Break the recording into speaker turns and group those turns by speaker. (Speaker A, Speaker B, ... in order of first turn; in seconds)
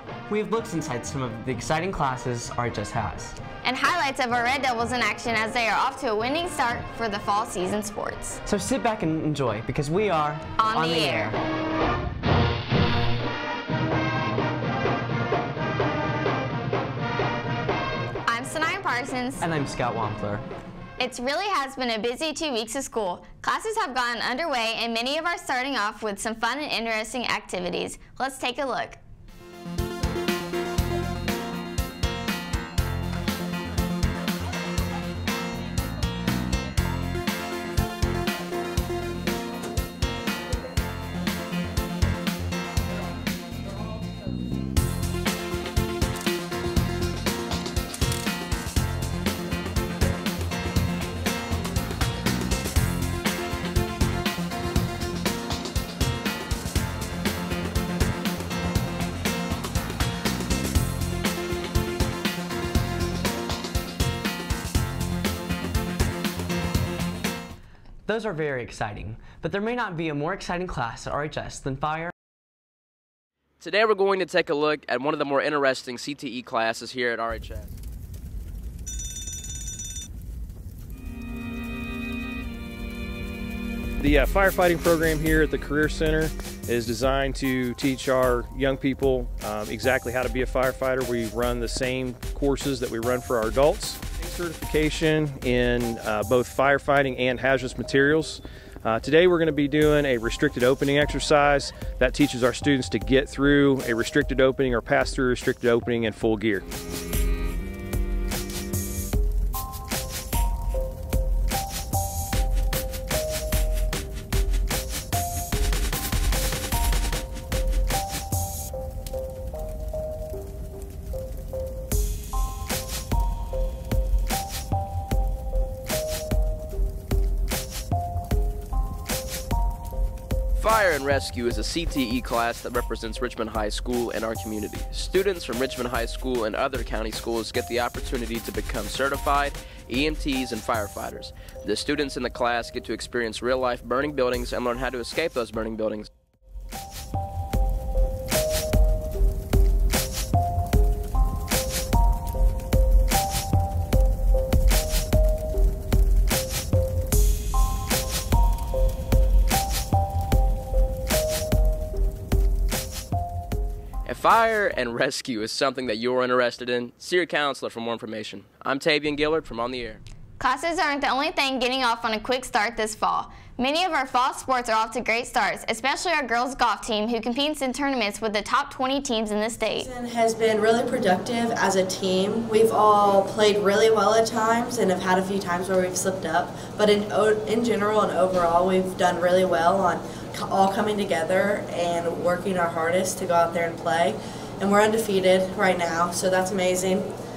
Speaker A: 0.3-3.4, 8.4-11.4, 19.4-20.4, 68.1-72.1
Speaker B: 3.6-8.4, 10.6-11.4, 18.3-19.4, 21.0-29.0, 170.4-179.9
Speaker C: 73.6-77.7, 130.6-146.1, 164.1-170.0
Speaker D: 84.0-106.6
Speaker E: 179.8-197.1